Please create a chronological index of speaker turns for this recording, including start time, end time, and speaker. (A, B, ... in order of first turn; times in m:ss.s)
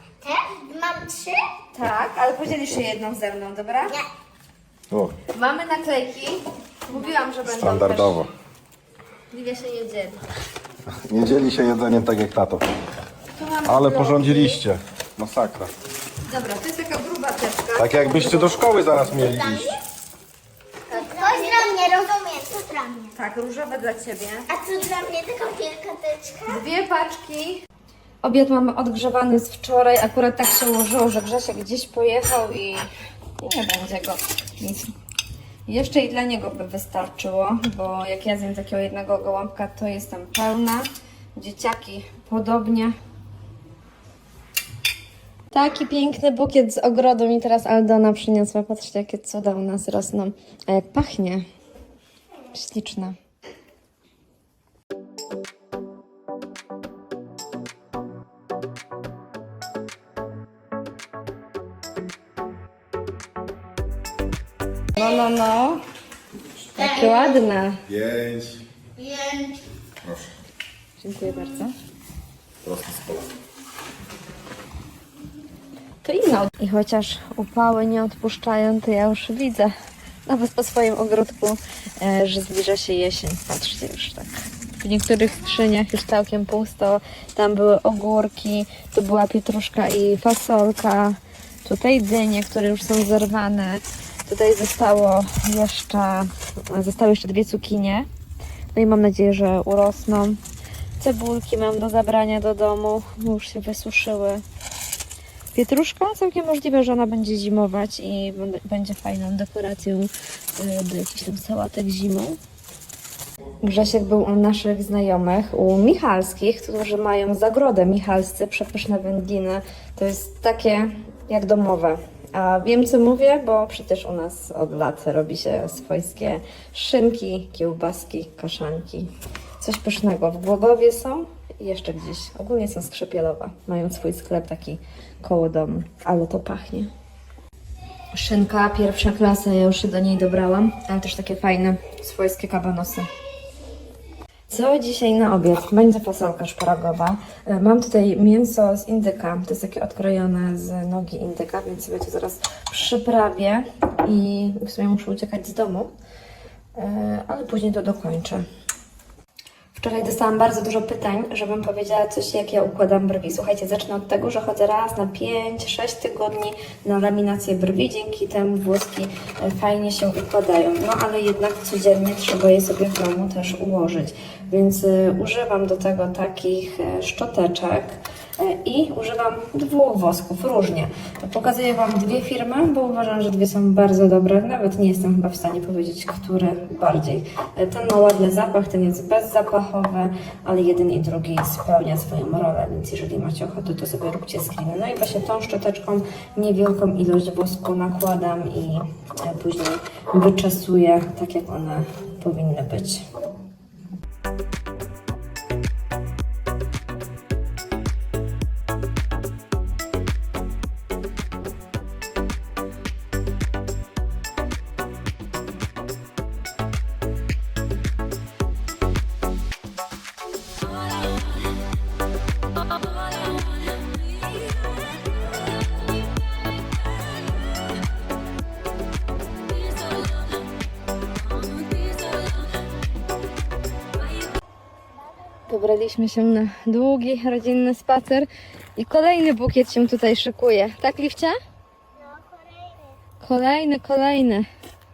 0:00.2-0:01.5 A
0:01.7-0:04.0 B
0:04.9-0:05.2 C
0:05.3-0:08.2 B
0:07.5-0:08.3 C
0:09.3-0:10.2 B
0:11.0-0:12.6 C
0:13.4-0:14.6 B
0:13.6-0:15.7 C
0:16.3-0:18.6 B
0:17.8-0:19.8 C
0:19.2-0:19.8 A
0:20.9-0:21.8 B
0:20.9-0:23.1 A
0:23.2-0:24.5 B
0:24.5-0:26.6 A
0:26.5-0:27.6 B
0:28.2-0:32.8 B
0:33.4-0:34.9 B
0:35.7-0:43.0 B
0:45.5-0:51.4 B
0:52.5-0:53.2 B
1:04.9-1:05.8 B
1:06.8-1:07.8 B
1:06.8-1:07.3 A
1:07.9-1:08.6 C
1:09.0-1:09.6 A
1:10.0-1:10.3 C
1:11.0-1:11.7 B
1:12.6-1:13.3 C
1:16.0-1:19.7 B
1:20.3-1:24.3 B
1:24.8-1:38.1 B
1:38.7-1:40.4 B
1:41.0-1:44.4 B
1:45.5-1:52.4 B
1:53.6-2:16.9 B
2:18.1-2:23.1 B
2:24.5-2:35.9 B
2:36.8-2:38.4 B
2:39.8-3:23.0 B
3:55.5-4:01.4 B
4:02.0-4:03.0 A
4:03.2-4:04.5 B